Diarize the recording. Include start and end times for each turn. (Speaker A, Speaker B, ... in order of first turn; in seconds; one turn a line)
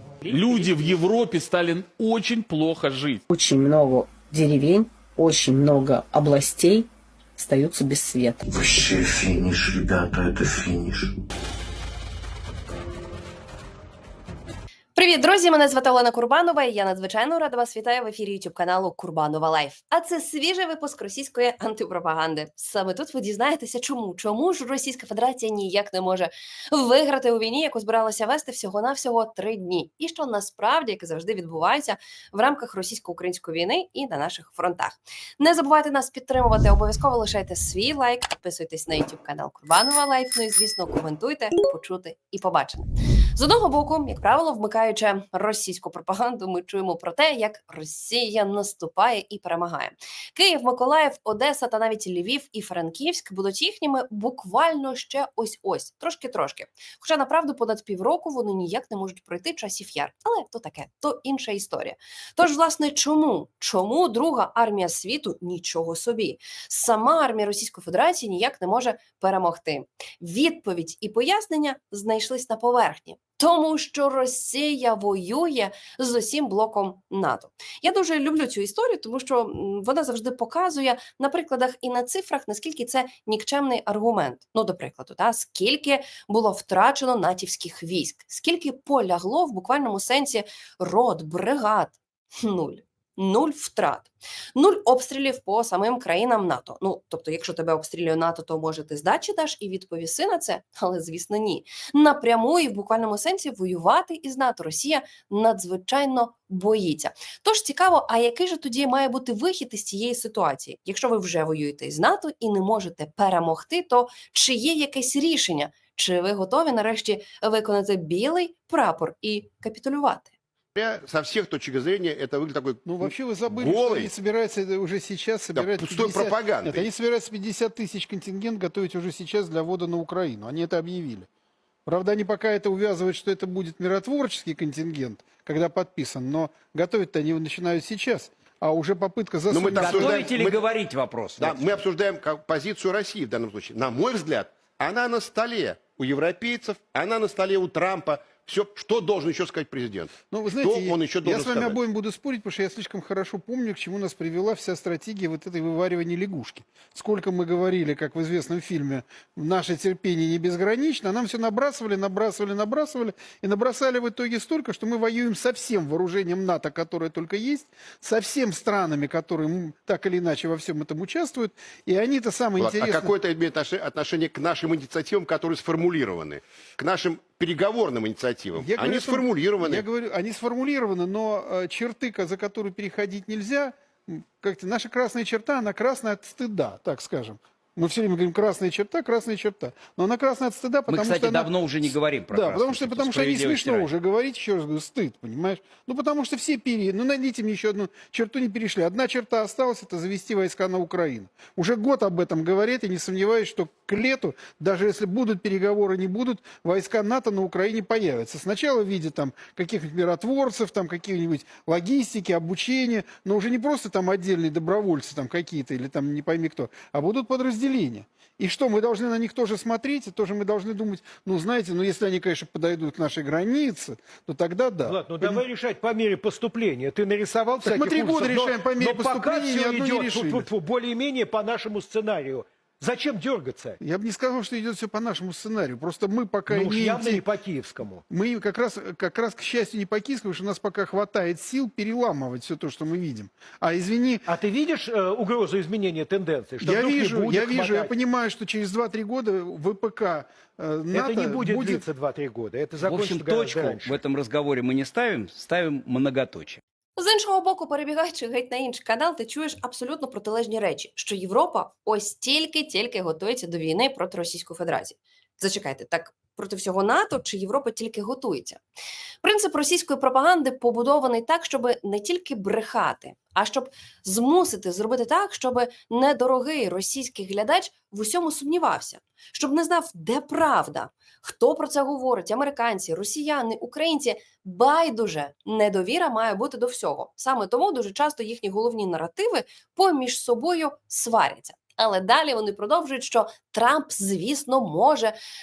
Speaker A: 0.3-3.2
Speaker B: 3.3-8.4
Speaker C: 8.5-11.1
Speaker D: 15.0-120.3
Speaker E: 120.8-124.1
Speaker F: 122.8-131.3
Speaker E: 125.5-126.9
Speaker F: 131.9-140.3
Speaker E: 139.5-140.7
Speaker G: 139.8-141.8
Speaker E: 141.4-151.8
Speaker F: 150.3-173.1
Speaker E: 172.6-179.9
Speaker F: 178.6-225.4
Speaker G: 190.9-193.9
Speaker H: 224.8-233.8
Speaker F: 227.6-230.5
Speaker F: 233.8-237.2
Speaker H: 236.5-238.0
Speaker F: 238.1-244.2
Speaker H: 244.3-247.9
Speaker F: 246.6-251.8
Speaker H: 250.9-254.0
Speaker G: 252.8-256.6
Speaker D: 257.0-268.6
Speaker D: 269.2-295.2